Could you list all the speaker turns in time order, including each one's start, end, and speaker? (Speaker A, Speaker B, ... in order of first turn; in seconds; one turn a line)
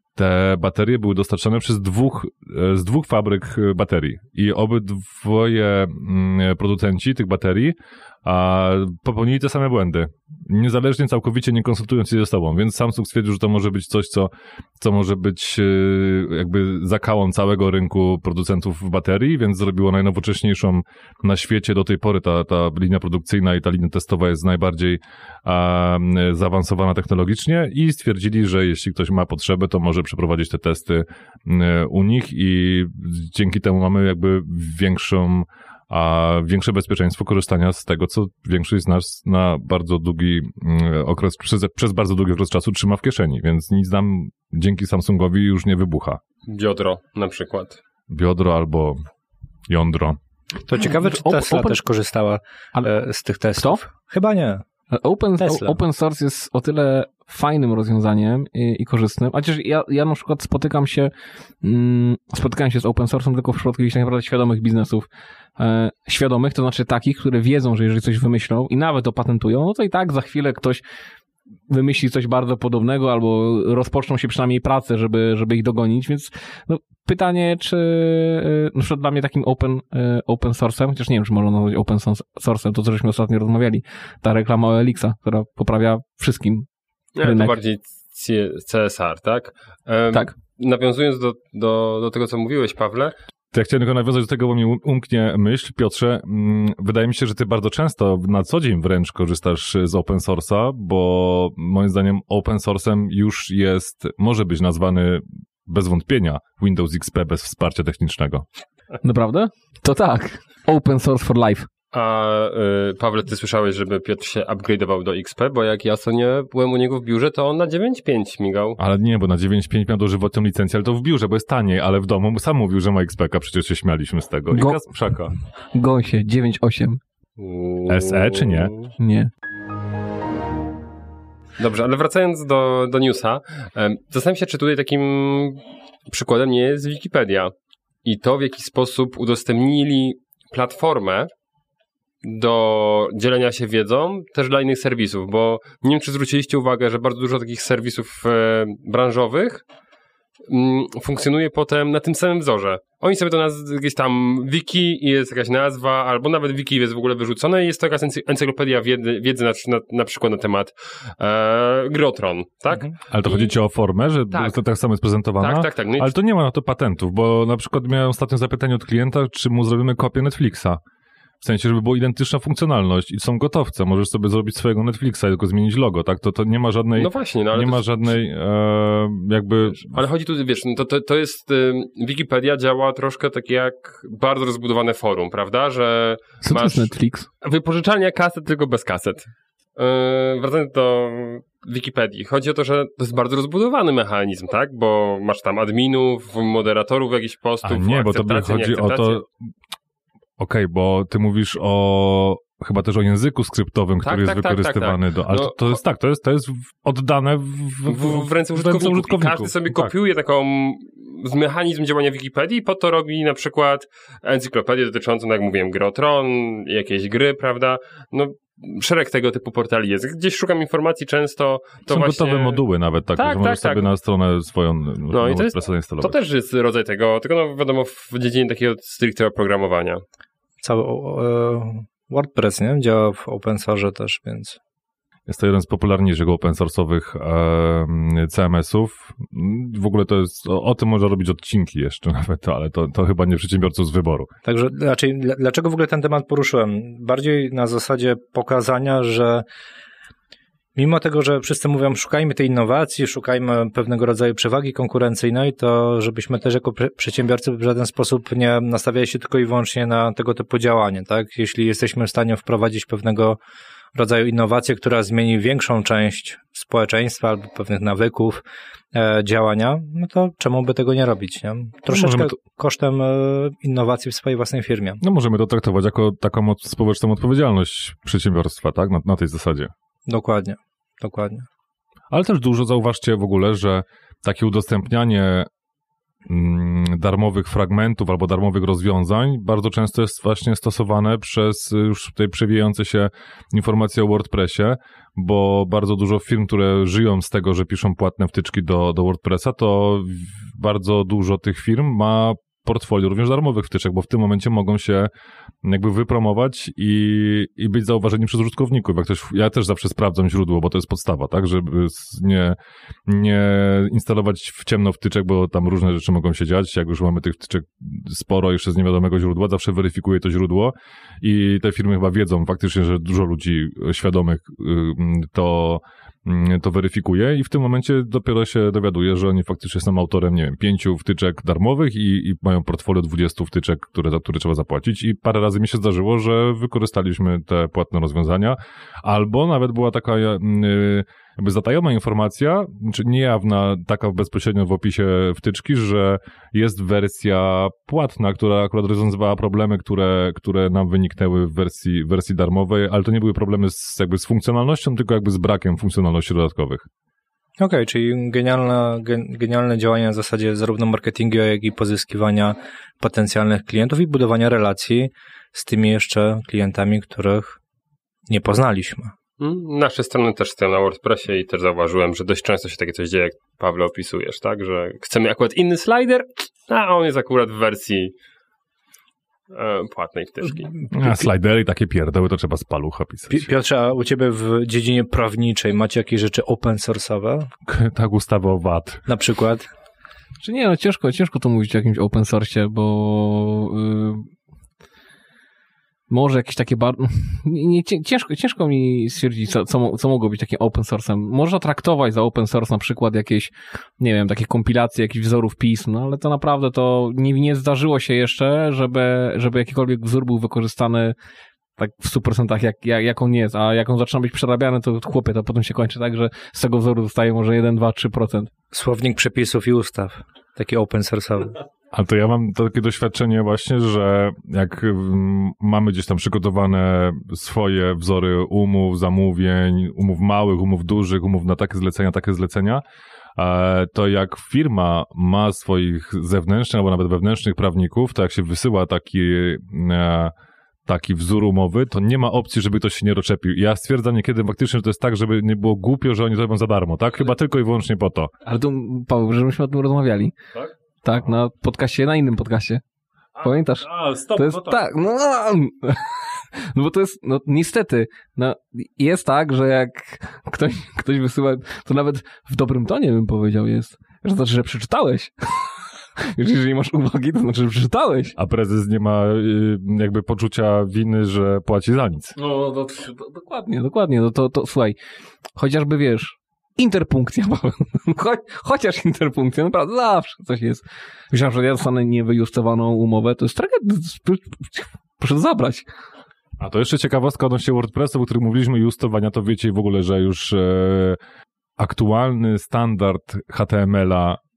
Speaker A: 0.2-46.2
Speaker B: 46.5-47.8
Speaker A: 48.1-49.0
Speaker A: 49.7-50.2
Speaker C: 50.7-54.6
Speaker D: 50.8-51.8
Speaker D: 54.9-65.1
Speaker C: 55.4-55.8
Speaker D: 65.6-70.8
Speaker D: 71.7-86.7
Speaker B: 87.2-93.2
Speaker D: 87.2-87.5
Speaker A: 93.5-108.5
Speaker D: 109.0-111.7
Speaker B: 111.9-118.8
Speaker A: 118.8-125.3
Speaker D: 124.5-124.8
Speaker D: 125.7-127.0
Speaker B: 127.4-128.9
Speaker A: 127.9-128.7
Speaker D: 129.0-129.3
Speaker B: 131.6-137.5
Speaker B: 138.0-141.3
Speaker B: 142.2-149.6
Speaker B: 150.5-163.5
Speaker A: 163.1-170.8
Speaker B: 164.3-164.6
Speaker B: 165.4-166.1
Speaker A: 171.4-180.0
Speaker B: 177.0-178.1
Speaker B: 179.8-199.2
Speaker D: 186.4-187.3
Speaker A: 197.6-199.3
Speaker A: 200.4-209.9
Speaker B: 204.0-205.8
Speaker B: 207.9-222.6
Speaker A: 221.9-226.2
Speaker B: 223.2-223.9
Speaker B: 225.1-230.0
Speaker C: 230.6-234.6
Speaker A: 235.3-244.3
Speaker C: 244.4-249.4
Speaker C: 250.8-263.4
Speaker C: 263.9-268.4
Speaker C: 268.9-275.0
Speaker A: 271.9-272.4
Speaker A: 275.0-279.7
Speaker C: 280.1-281.5
Speaker A: 282.1-285.5
Speaker A: 286.3-305.1
Speaker A: 305.6-356.9
Speaker C: 357.6-367.6
Speaker C: 368.3-369.1
Speaker B: 369.4-378.1
Speaker B: 379.5-380.7
Speaker A: 380.9-383.5
Speaker C: 381.0-381.3
Speaker C: 383.3-387.5
Speaker A: 387.7-389.1
Speaker C: 389.1-389.7
Speaker D: 390.4-394.3
Speaker D: 396.1-411.1
Speaker D: 411.8-418.5
Speaker C: 418.7-421.6
Speaker A: 421.9-432.8
Speaker A: 433.4-440.3
Speaker A: 440.9-448.3
Speaker D: 448.4-450.4
Speaker D: 451.0-452.8
Speaker A: 453.4-454.8
Speaker D: 453.4-468.4
Speaker A: 468.4-472.4
Speaker D: 472.4-475.0
Speaker D: 475.6-485.9
Speaker A: 486.6-491.2
Speaker A: 491.8-494.4